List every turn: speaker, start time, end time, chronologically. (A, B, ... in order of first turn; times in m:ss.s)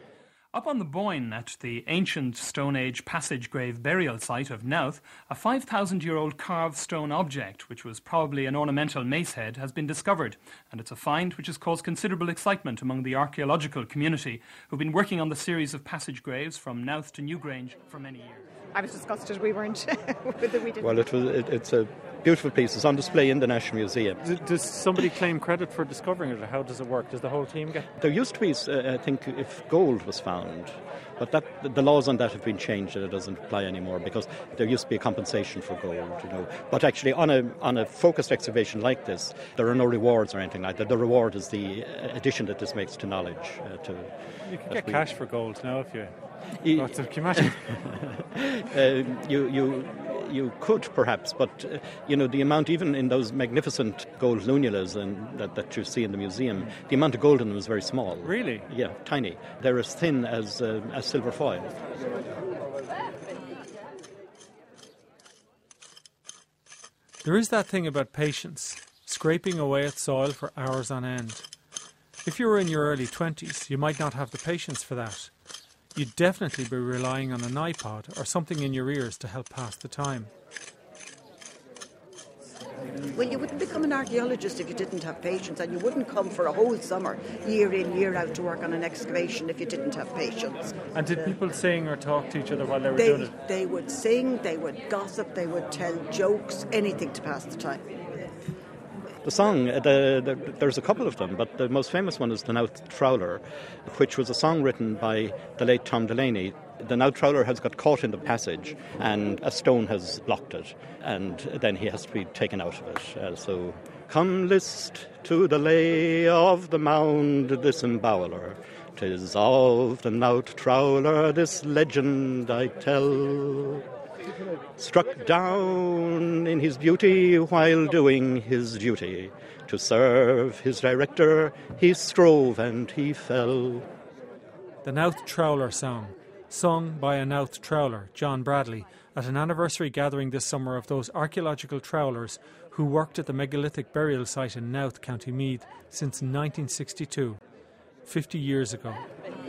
0:00.5-0:18.4 A
0:18.7-0:21.0 B
0:20.8-0:24.2 C
0:24.2-0:27.9 D
0:28.0-0:44.1 C
0:44.4-0:46.2 D
0:44.6-0:45.1 C
0:46.6-1:01.8 C
0:46.7-0:47.8 D
0:58.2-0:58.7 D
1:07.2-1:11.5 D
1:12.2-1:15.3 D
1:16.0-1:20.3 D
1:23.1-1:30.7 E
1:30.9-1:33.3 D
1:33.0-1:37.8 E
1:39.2-2:03.8 C
2:04.8-2:13.9 C
2:14.8-2:27.4 D
2:28.1-2:29.1 D